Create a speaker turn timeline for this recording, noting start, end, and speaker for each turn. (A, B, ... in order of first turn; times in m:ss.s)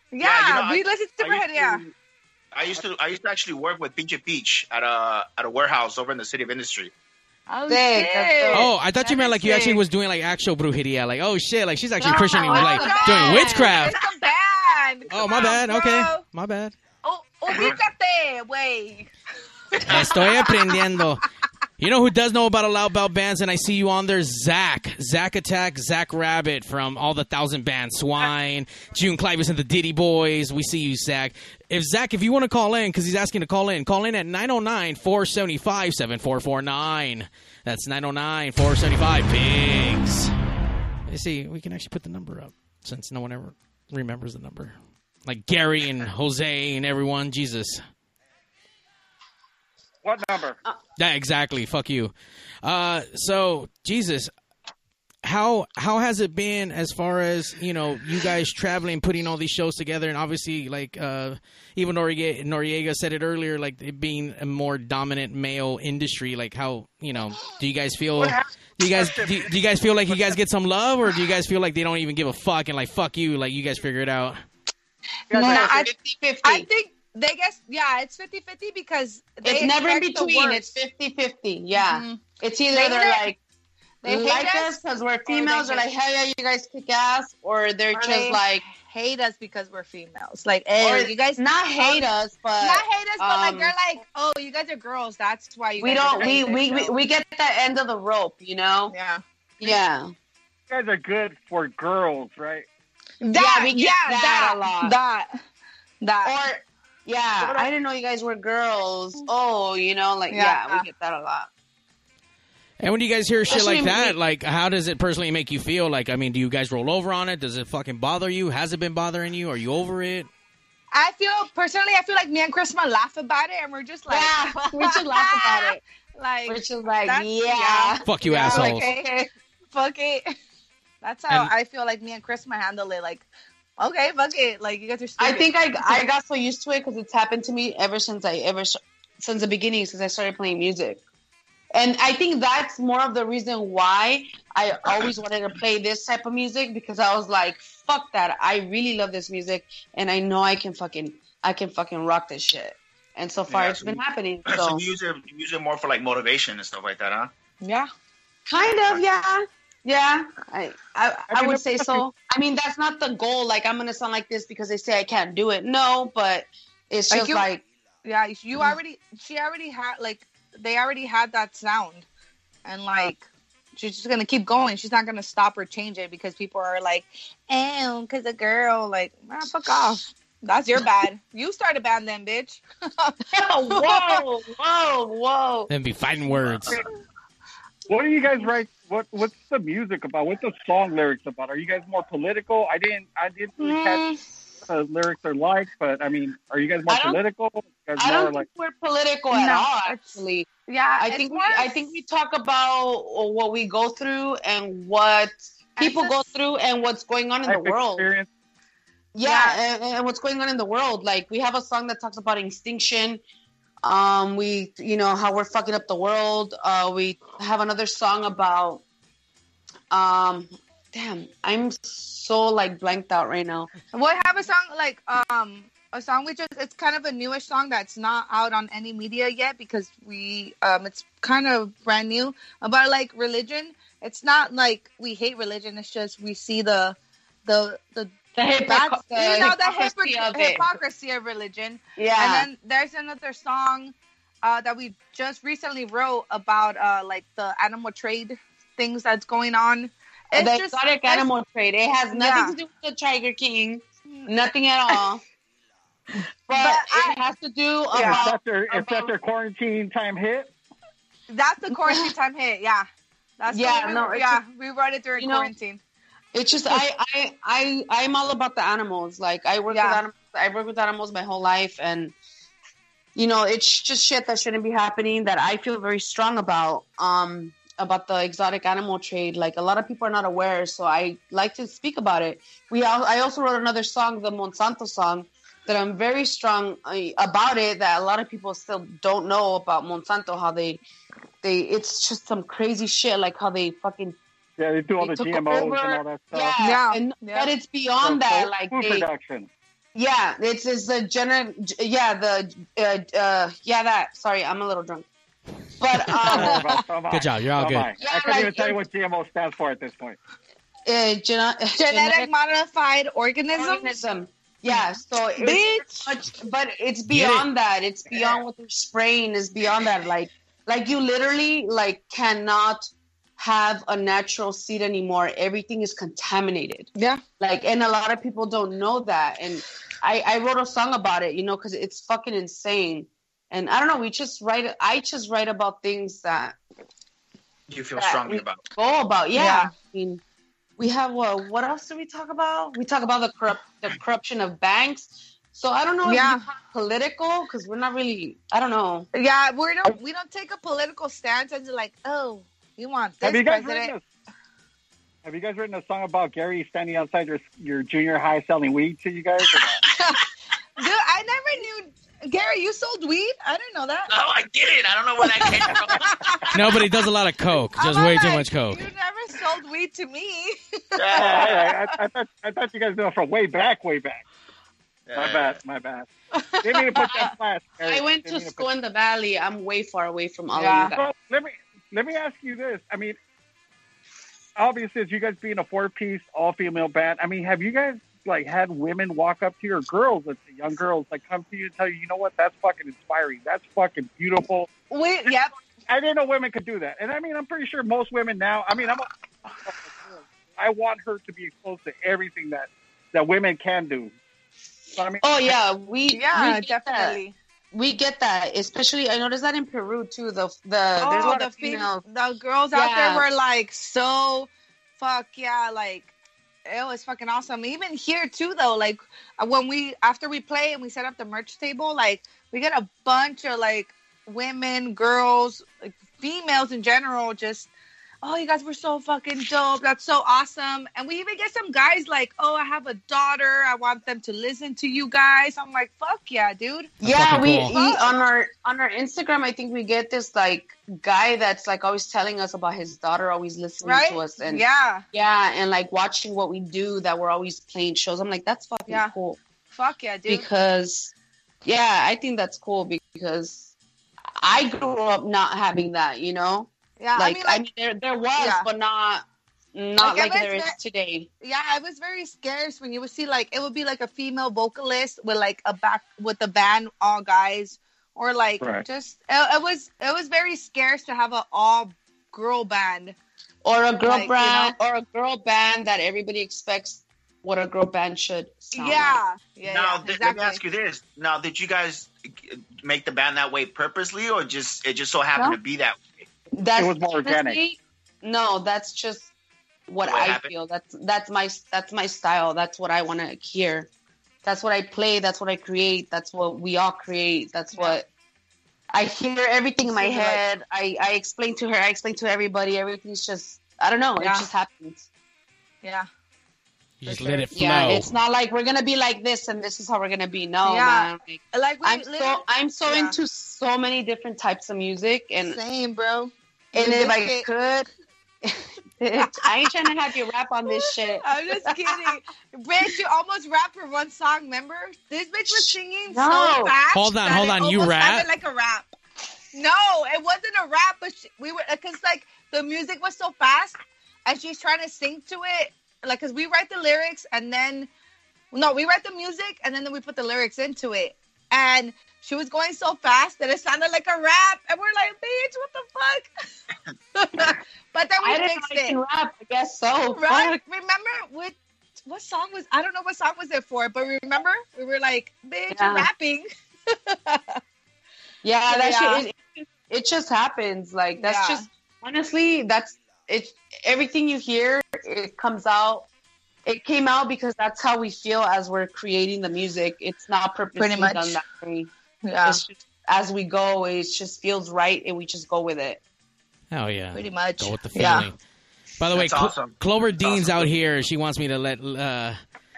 0:00.1-0:01.8 A
0:00.2-0:01.9 B
0:02.5-0:06.9 B
0:07.5-0:09.8 A
0:07.7-0:08.7 C
0:08.5-0:13.9 D
0:12.0-0:14.0 C
0:12.3-0:16.2 A
0:15.1-0:16.7 D
0:17.0-0:19.1 A
0:19.7-0:20.8 A
0:19.9-0:21.2 D
0:21.8-0:40.3 D
0:41.1-0:44.7 D
0:45.2-0:47.8 D
0:50.0-0:50.6 E
0:51.0-0:54.3 D
0:55.2-1:14.4 D
1:08.2-1:10.4 E
1:15.3-1:15.7 E
1:15.3-1:15.9 A
1:15.3-1:16.7 C
1:16.4-1:20.7 A
1:19.4-1:23.4 C
1:21.7-1:22.2 A
1:22.7-1:23.3 A
1:24.0-1:25.8 A
1:24.0-1:28.6 C
1:27.9-1:32.0 A
1:30.8-1:33.7 C
1:32.6-1:36.9 A
1:35.8-1:38.9 C
1:38.9-1:39.7 A
1:39.6-1:40.1 C
1:40.7-1:42.6 E
1:43.2-1:45.3 A
1:43.3-1:45.0 C
1:46.0-1:46.3 A
1:46.2-1:51.5 C
1:50.3-1:50.8 A
1:52.8-2:00.3 D
1:53.5-1:54.2 C
2:00.9-2:10.3 A
2:04.1-2:05.8 C
2:06.5-2:09.3 C
2:08.0-2:08.8 D
2:11.0-2:13.2 A
2:13.8-2:16.0 A
2:15.2-2:21.0 C
2:21.7-2:34.8 C
2:33.5-2:37.3 B
2:37.6-2:37.9 A
2:38.5-2:47.6 C
2:41.3-2:42.0 E
2:47.1-2:47.4 A
2:48.0-2:52.0 A
2:52.6-2:53.2 A
2:53.8-3:03.2 A
3:03.3-3:05.7 C
3:03.7-3:04.2 A
3:05.7-3:06.8 D
3:07.9-3:14.0 E
3:13.6-3:14.2 A
3:14.6-3:18.4 E
3:16.9-3:17.2 C
3:18.0-3:28.1 C
3:19.3-3:21.9 A
3:25.8-3:26.3 A
3:27.4-3:28.3 E
3:29.1-3:33.2 C
3:29.2-3:29.6 A
3:33.8-3:38.8 C
3:39.9-3:43.7 C
3:43.9-3:58.1 A
3:58.3-4:00.7 C
3:58.6-4:11.3 A
4:02.0-4:02.5 C
4:10.3-4:15.2 C
4:12.1-4:12.6 A
4:14.1-4:14.3 A
4:16.5-4:19.1 C
4:16.5-4:17.2 A
4:17.9-4:18.2 A
4:17.9-4:20.5 E
4:21.3-4:22.9 A
4:21.7-4:22.1 C
4:23.4-4:25.8 A
4:23.5-4:24.4 C
4:25.2-4:25.5 C
4:26.3-4:32.1 C
4:29.7-4:30.0 A
4:33.1-4:50.8 C
4:51.4-4:54.2 C
4:54.6-4:56.6 E
4:55.0-4:59.1 C
4:56.6-4:57.5 A
4:58.0-4:59.5 E
4:59.9-5:05.0 C
5:05.8-5:06.7 C
5:06.2-5:06.8 A
5:06.2-5:10.2 E
5:07.1-5:07.9 D
5:08.0-5:08.8 C
5:10.8-5:12.3 C
5:11.8-5:14.0 A
5:13.5-5:36.6 C
5:15.4-5:16.1 A
5:17.1-5:17.5 D
5:26.9-5:27.2 A
5:37.7-5:38.6 B
5:38.0-5:40.2 C
5:39.3-5:39.7 A
5:40.8-5:49.1 C
5:46.0-5:46.4 A
5:49.1-5:53.9 A
5:53.2-5:54.0 E
5:55.2-5:59.8 E
5:59.9-6:00.2 A
6:00.8-6:04.1 A
6:04.1-6:06.4 B
6:05.2-6:06.4 A
6:06.5-6:08.8 D
6:07.8-6:11.7 A
6:11.0-6:11.7 B
6:11.1-6:14.2 E
6:15.1-6:15.6 B
6:15.1-6:16.1 E
6:16.3-6:17.3 A
6:16.6-6:18.7 E
6:17.8-6:21.1 C
6:20.5-6:20.9 A
6:20.8-6:23.2 E
6:24.6-6:34.7 E
6:34.9-6:35.5 A
6:35.9-6:39.1 E
6:39.6-6:44.1 E
6:45.0-6:45.5 E
6:45.2-6:47.2 C
6:46.1-6:47.3 A
6:47.7-6:52.0 C
6:51.0-6:56.1 A
6:52.7-6:53.2 C
6:56.6-7:07.7 A
7:08.2-7:16.9 A
7:17.0-7:17.7 D
7:17.0-7:29.4 C
7:17.7-7:18.1 A
7:23.8-7:25.0 A
7:28.9-7:29.1 A
7:29.7-7:30.5 A
7:30.3-7:31.1 C
7:31.6-7:33.7 C
7:34.4-7:41.3 C
7:37.0-7:37.6 A
7:38.4-7:38.7 A
7:40.0-7:40.8 A
7:41.4-7:53.2 A
7:48.6-7:48.8 E
7:53.6-7:59.2 C
7:54.0-7:54.7 A
7:58.7-8:00.6 A
7:59.7-8:06.0 B
8:06.5-8:09.3 C
8:06.8-8:07.6 E
8:09.9-8:13.9 C
8:10.0-8:10.5 B
8:14.4-8:18.1 C
8:18.9-8:25.0 C
8:19.8-8:20.4 A
8:24.2-8:24.4 A
8:27.0-8:28.1 D
8:27.0-8:27.7 A
8:27.5-8:35.6 C
8:30.6-8:33.2 A
8:35.4-8:37.5 A
8:36.7-8:37.9 C
8:38.4-8:42.2 C
8:39.2-8:39.6 A
8:40.7-8:48.9 A
8:45.5-8:46.8 C
8:46.9-8:48.3 D
8:49.5-8:57.9 A
8:58.5-9:06.3 A
9:07.1-9:09.0 A
9:08.2-9:10.6 C
9:10.1-9:17.6 A
9:15.7-9:16.1 C
9:18.4-9:26.1 C
9:18.7-9:19.2 A
9:21.2-9:21.6 A
9:26.6-9:31.9 C
9:30.8-9:31.4 A
9:32.2-9:32.6 A
9:32.4-9:36.0 C
9:36.7-9:38.4 D
9:37.1-9:38.3 A
9:39.0-9:42.4 D
9:39.1-9:40.7 B